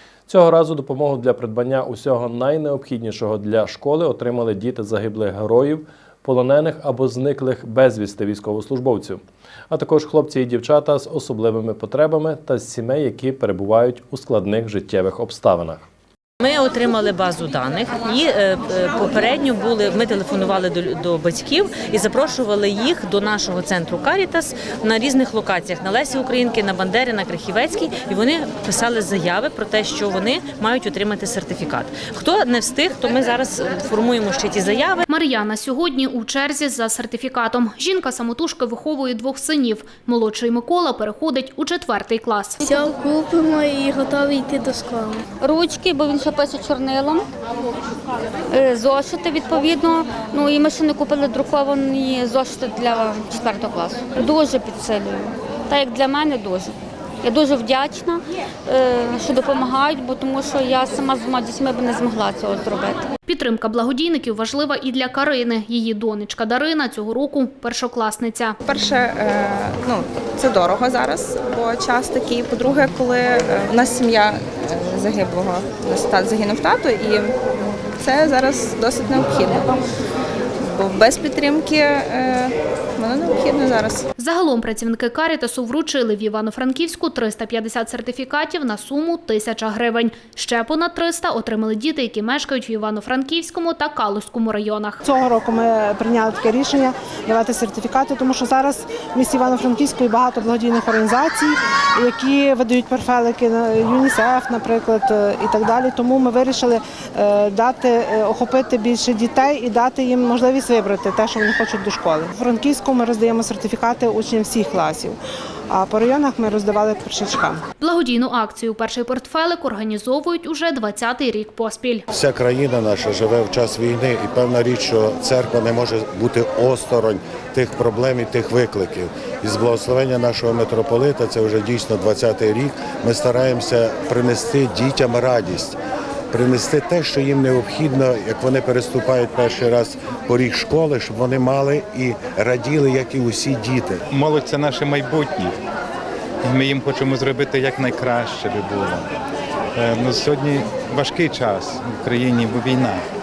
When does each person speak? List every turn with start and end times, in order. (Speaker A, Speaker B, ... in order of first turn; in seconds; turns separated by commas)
Speaker A: 0.3-15.9, Speaker B: 16.4-35.0, Speaker C: 35.1-42.6, Speaker D: 42.6-45.2, Speaker E: 50.5-50.9, Speaker E: 53.1-53.8, Speaker E: 54.5-55.0, Speaker E: 56.1-56.4, Speaker E: 57.4-57.9, Speaker E: 58.9-60.5, Speaker E: 61.1-62.8, Speaker C: 63.3-68.6, Speaker F: 68.7-77.4, Speaker F: 78.0-79.8, Speaker F: 80.6-84.1, Speaker C: 84.2-95.0, Speaker G: 95.0-117.6, Speaker C: 117.8-122.0, Speaker H: 122.1-135.8, Speaker H: 136.3-144.0, Speaker I: 144.1-145.6, Speaker I: 146.4-149.1, Speaker I: 149.8-153.0